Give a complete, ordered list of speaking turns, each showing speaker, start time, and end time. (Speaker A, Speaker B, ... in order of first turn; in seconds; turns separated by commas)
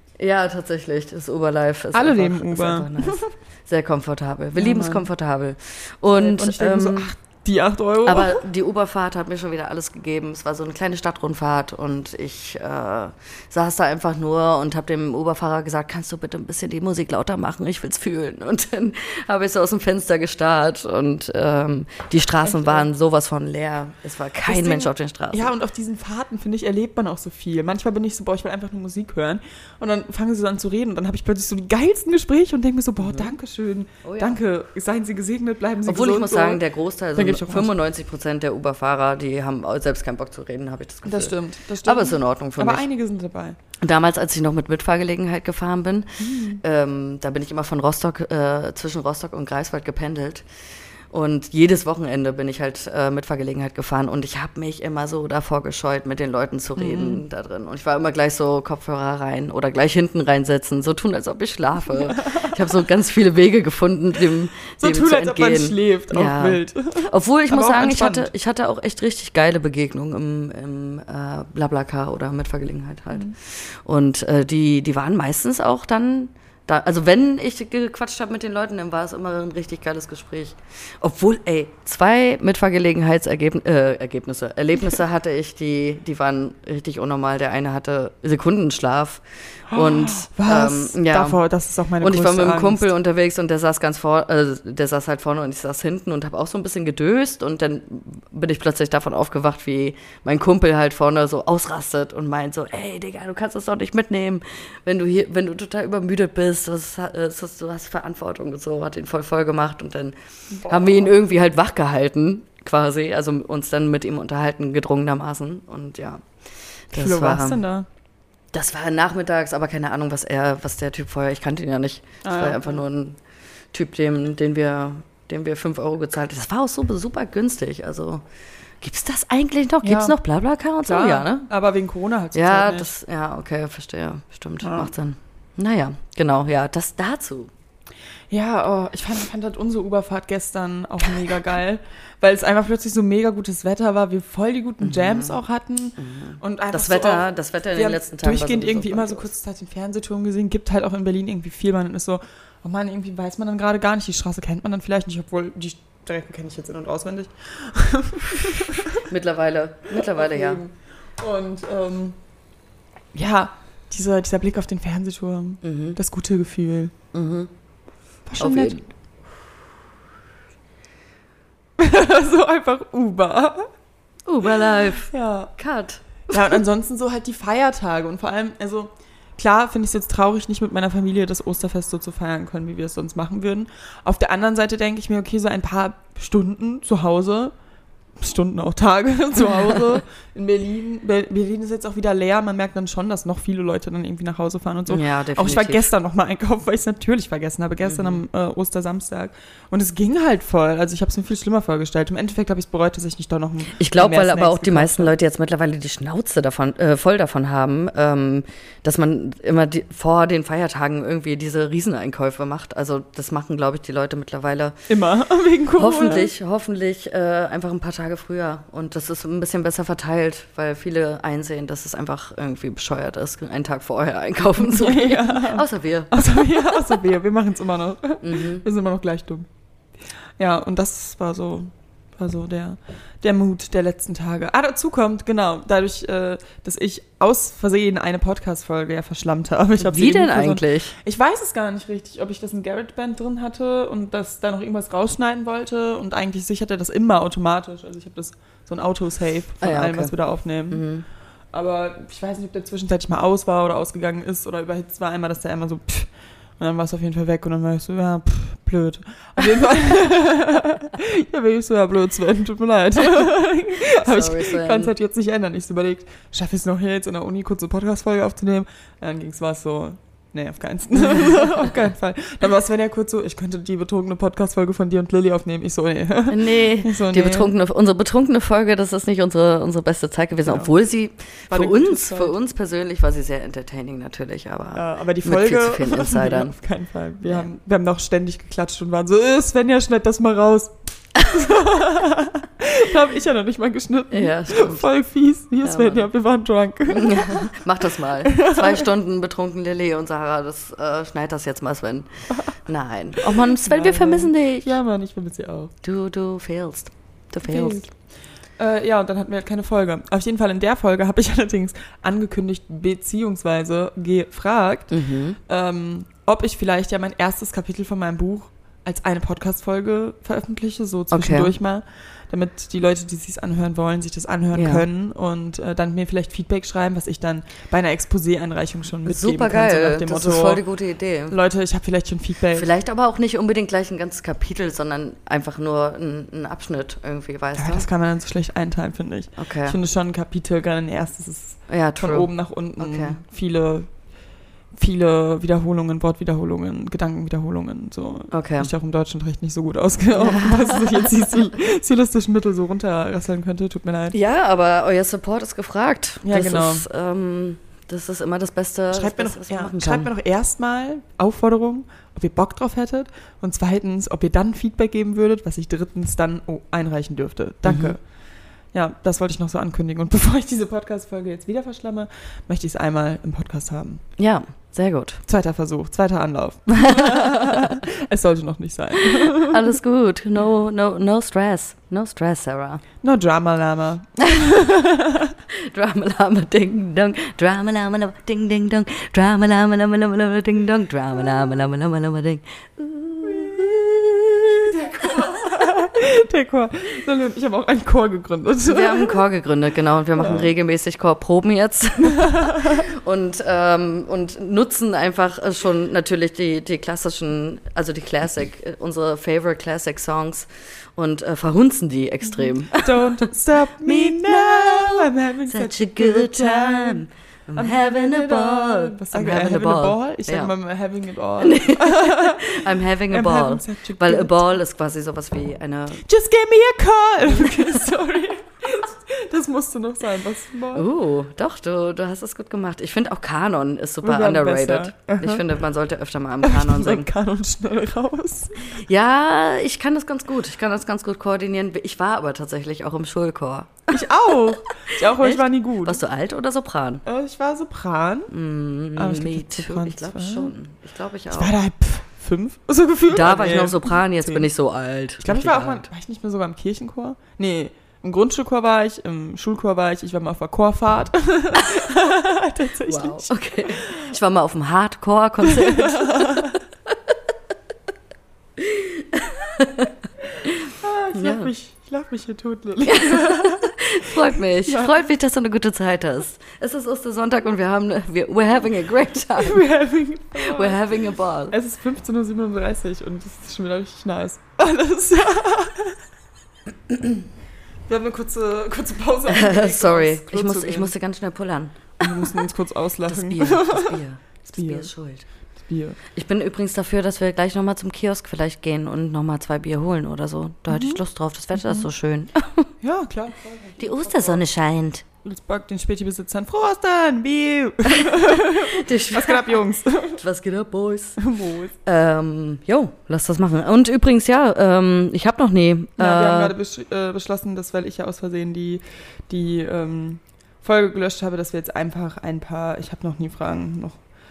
Speaker A: 0.2-7.1, Speaker B: 1.9-3.3, Speaker B: 4.5-5.1, Speaker B: 6.1-8.4, Speaker A: 8.0-25.5, Speaker B: 22.4-22.9, Speaker B: 24.4-36.6, Speaker A: 33.0-33.3, Speaker A: 34.0-34.4, Speaker A: 35.8-42.8, Speaker B: 37.1-37.8, Speaker B: 41.0-43.6, Speaker A: 43.8-50.4, Speaker B: 46.2-46.6, Speaker A: 51.1-91.4, Speaker B: 56.8-57.2, Speaker B: 61.9-62.5, Speaker B: 64.8-68.3, Speaker B: 89.7-92.9, Speaker A: 92.0-116.2, Speaker B: 110.6-111.2, Speaker A: 116.9-117.6, Speaker B: 116.9-117.9, Speaker A: 118.5-123.2, Speaker B: 122.2-122.8, Speaker A: 123.7-128.2, Speaker A: 128.8-131.5, Speaker B: 129.8-130.2, Speaker B: 130.8-132.9, Speaker A: 132.3-137.5, Speaker B: 134.6-134.9, Speaker B: 138.3-159.0, Speaker A: 144.8-145.4, Speaker A: 146.0-149.3, Speaker A: 159.1-160.6, Speaker B: 159.9-162.2, Speaker B: 163.1-166.9, Speaker A: 165.6-166.0, Speaker A: 167.1-167.5, Speaker B: 168.3-168.8, Speaker A: 168.4-168.8, Speaker B: 171.8-173.7, Speaker A: 174.2-176.6, Speaker B: 174.4-175.5, Speaker B: 176.3-187.5, Speaker B: 188.2-205.1, Speaker A: 194.9-195.9, Speaker A: 197.8-198.2, Speaker A: 203.7-214.8, Speaker B: 214.9-216.3, Speaker A: 215.8-226.6, Speaker B: 224.6-229.5, Speaker A: 228.2-228.6, Speaker B: 230.4-250.8, Speaker A: 239.8-240.9, Speaker A: 249.6-250.1, Speaker A: 250.7-251.0, Speaker B: 251.5-277.5, Speaker A: 263.8-264.9, Speaker A: 276.3-286.5, Speaker B: 280.4-280.7, Speaker B: 281.5-282.4, Speaker B: 284.7-297.5, Speaker A: 287.2-287.5, Speaker A: 294.1-294.9, Speaker A: 295.6-296.1, Speaker A: 296.9-304.7, Speaker B: 298.2-298.9, Speaker B: 303.2-305.7, Speaker A: 305.8-307.9, Speaker B: 307.4-307.9, Speaker B: 308.6-330.6, Speaker A: 314.9-315.4, Speaker A: 321.1-321.5, Speaker A: 324.5-324.8, Speaker A: 329.0-331.4, Speaker B: 331.3-332.7, Speaker A: 332.5-337.9, Speaker B: 337.6-343.9, Speaker A: 339.4-339.8, Speaker A: 341.7-343.2, Speaker B: 344.7-354.1, Speaker A: 348.3-348.7, Speaker A: 350.1-351.1, Speaker A: 354.1-360.1, Speaker B: 356.2-356.9, Speaker B: 358.9-368.0, Speaker A: 367.6-367.9, Speaker B: 368.7-374.0, Speaker A: 374.2-375.2, Speaker B: 375.2-379.7, Speaker A: 376.8-377.8, Speaker A: 379.4-382.8, Speaker B: 383.0-385.4, Speaker A: 385.5-395.4, Speaker B: 393.2-393.8, Speaker B: 394.6-399.2, Speaker A: 398.6-413.3, Speaker B: 400.1-400.5, Speaker B: 402.0-402.8, Speaker B: 412.4-417.0, Speaker A: 413.8-420.5, Speaker B: 417.6-424.6, Speaker A: 421.4-426.0, Speaker B: 426.0-430.9, Speaker A: 427.3-427.8, Speaker A: 430.7-437.1, Speaker B: 434.0-435.5, Speaker B: 436.4-438.7, Speaker A: 438.6-447.0, Speaker B: 443.9-446.0, Speaker B: 447.0-448.3, Speaker A: 448.3-451.5, Speaker B: 448.9-450.5, Speaker B: 451.3-454.5, Speaker A: 453.1-455.9, Speaker B: 455.2-464.1, Speaker A: 462.8-466.9, Speaker B: 465.4-466.6, Speaker A: 468.6-471.5, Speaker B: 470.7-475.1, Speaker A: 472.8-479.6, Speaker B: 479.3-486.0, Speaker A: 480.4-481.6, Speaker B: 487.9-490.9, Speaker A: 489.3-492.3, Speaker B: 492.0-494.0, Speaker A: 493.1-495.2, Speaker B: 494.5-494.9, Speaker B: 495.6-496.0, Speaker A: 496.1-502.7, Speaker B: 500.7-501.0, Speaker B: 501.5-501.9, Speaker B: 502.8-504.4, Speaker A: 503.8-505.0, Speaker B: 505.2-510.2, Speaker A: 507.9-509.6, Speaker A: 510.1-511.2, Speaker B: 511.2-511.7, Speaker A: 511.8-516.5, Speaker B: 516.0-524.0